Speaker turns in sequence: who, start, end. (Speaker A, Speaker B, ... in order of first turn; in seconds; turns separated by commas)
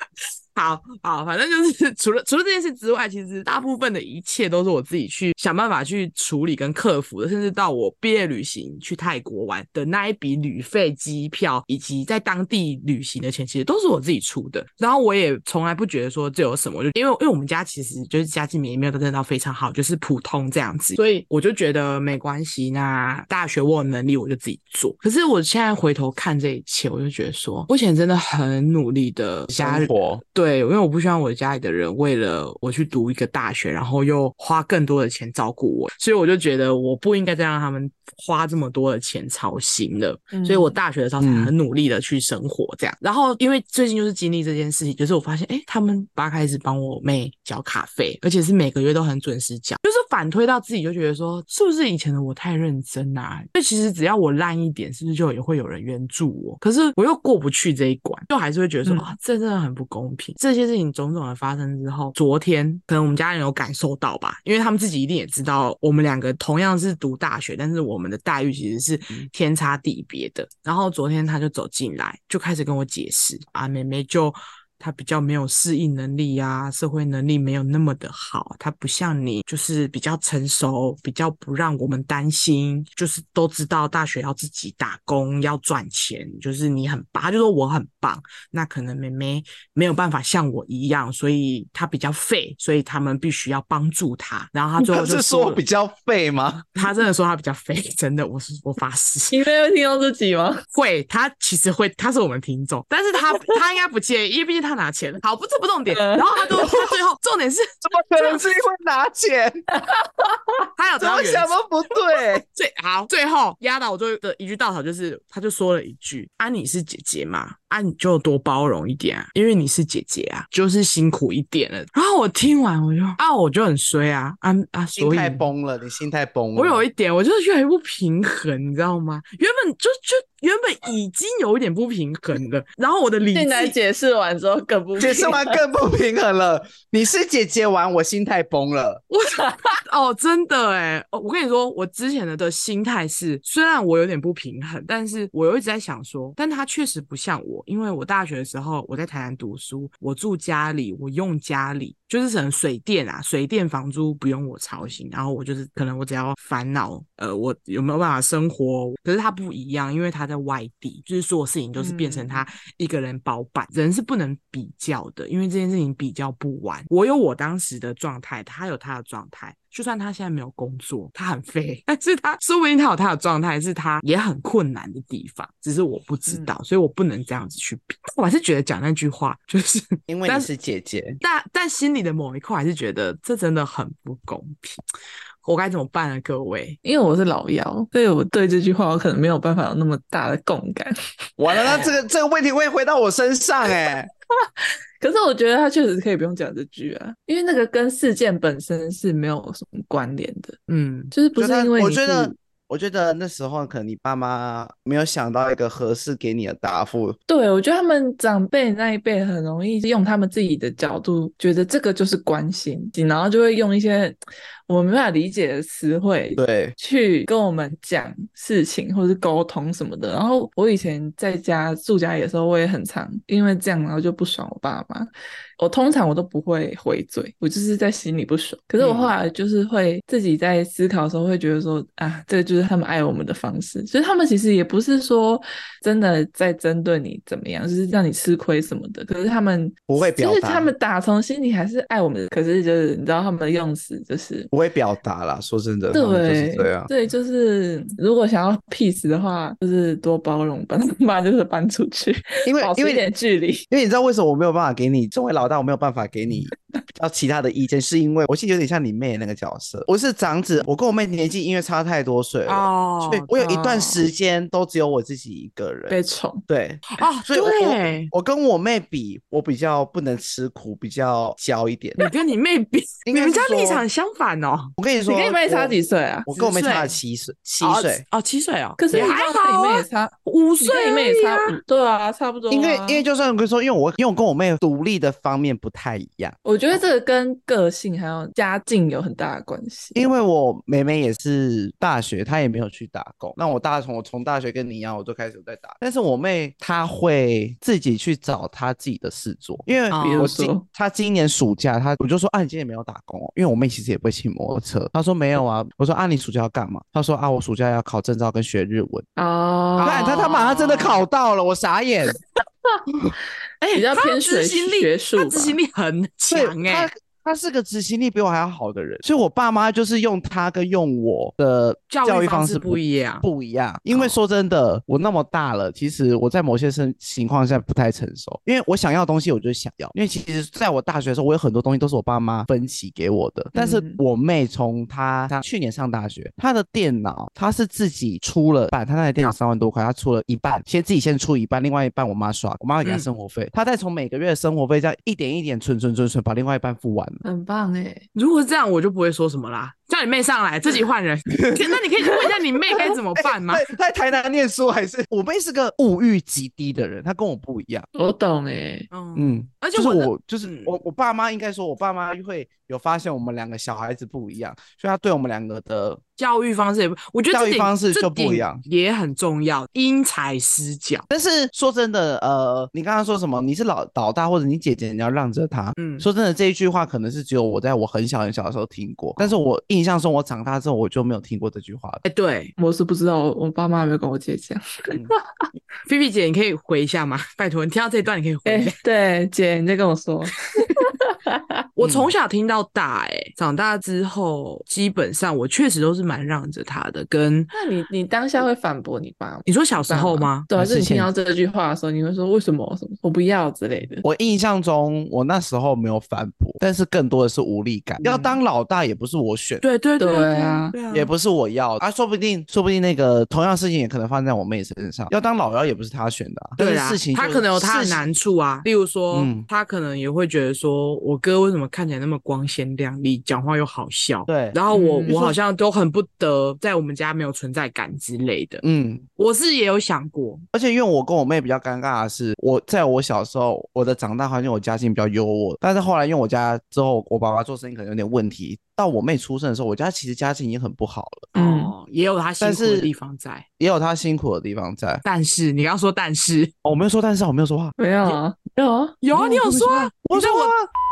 Speaker A: 0.6-95.6, Speaker B: 29.5-30.2, Speaker C: 40.3-40.8, Speaker B: 41.2-41.5, Speaker C: 58.9-59.1, Speaker B: 94.8-96.9, Speaker A: 96.8-99.4, Speaker C: 99.3-100.6, Speaker A: 100.7-108.4, Speaker C: 103.3-103.6, Speaker C: 105.9-106.7, Speaker B: 107.8-109.6, Speaker C: 109.8-110.7, Speaker A: 110.8-111.6, Speaker B: 111.0-112.4, Speaker A: 112.5-125.5, Speaker B: 125.0-126.8, Speaker A: 126.6-133.8, Speaker C: 133.3-135.6, Speaker B: 135.0-139.0, Speaker A: 139.1-180.5, Speaker C: 139.4-139.7, Speaker C: 161.8-162.5, Speaker C: 176.3-176.5, Speaker B: 180.1-181.2, Speaker A: 181.2-184.8, Speaker A: 185.4-186.8, Speaker C: 186.8-190.9, Speaker B: 191.4-194.1, Speaker C: 191.6-191.9, Speaker C: 195.0-200.6, Speaker A: 200.7-201.1, Speaker C: 201.1-202.3, Speaker B: 201.3-207.2, Speaker C: 207.3-214.2, Speaker C: 214.7-244.5, Speaker B: 216.4-216.7, Speaker A: 228.8-229.1, Speaker B: 239.9-240.7, Speaker B: 244.5-246.9, Speaker C: 245.9-253.7, Speaker B: 252.5-253.0, Speaker B: 253.7-272.1, Speaker A: 262.5-263.3, Speaker C: 263.3-264.0, Speaker C: 265.9-266.4, Speaker A: 266.9-268.1, Speaker A: 272.0-274.7, Speaker B: 273.1-273.9, Speaker B: 274.8-278.0, Speaker C: 275.1-276.3, Speaker A: 276.4-277.0, Speaker A: 277.6-281.6, Speaker C: 278.8-283.1, Speaker B: 282.5-286.8, Speaker C: 286.4-290.0, Speaker B: 289.9-309.1, Speaker A: 299.9-300.3, Speaker C: 299.9-300.6, Speaker C: 309.2-310.3, Speaker A: 309.8-311.0, Speaker B: 309.8-312.2, Speaker A: 313.6-316.9, Speaker C: 313.7-315.6, Speaker B: 316.3-347.2, Speaker A: 321.9-323.3, Speaker A: 323.9-324.2, Speaker C: 333.5-334.0, Speaker C: 347.2-348.1, Speaker A: 348.1-353.7, Speaker B: 351.3-351.8, Speaker C: 352.3-352.9, Speaker B: 353.1-357.9, Speaker C: 357.9-358.9, Speaker A: 358.9-360.8, Speaker B: 359.1-366.0, Speaker A: 366.2-371.1, Speaker B: 367.3-368.6, Speaker B: 371.1-382.0, Speaker A: 375.8-376.1, Speaker A: 382.1-382.5, Speaker C: 382.6-385.1, Speaker A: 385.9-388.8, Speaker C: 388.4-391.6, Speaker A: 391.8-397.5, Speaker B: 391.8-392.1, Speaker C: 397.5-404.0, Speaker A: 399.5-400.5, Speaker B: 400.5-401.1, Speaker B: 404.0-409.6, Speaker C: 408.0-408.3, Speaker A: 409.6-411.1, Speaker C: 410.0-410.8, Speaker B: 410.9-418.1, Speaker A: 416.6-428.6, Speaker B: 419.1-419.5, Speaker B: 424.3-425.4, Speaker C: 424.7-425.2, Speaker B: 428.6-429.1, Speaker A: 429.2-430.4, Speaker B: 430.5-441.3, Speaker A: 441.3-443.5, Speaker C: 441.4-441.7, Speaker B: 442.4-442.9, Speaker B: 443.6-445.0, Speaker A: 445.1-446.5, Speaker B: 446.6-447.8, Speaker C: 447.8-449.0, Speaker A: 449.0-450.5, Speaker B: 449.1-450.7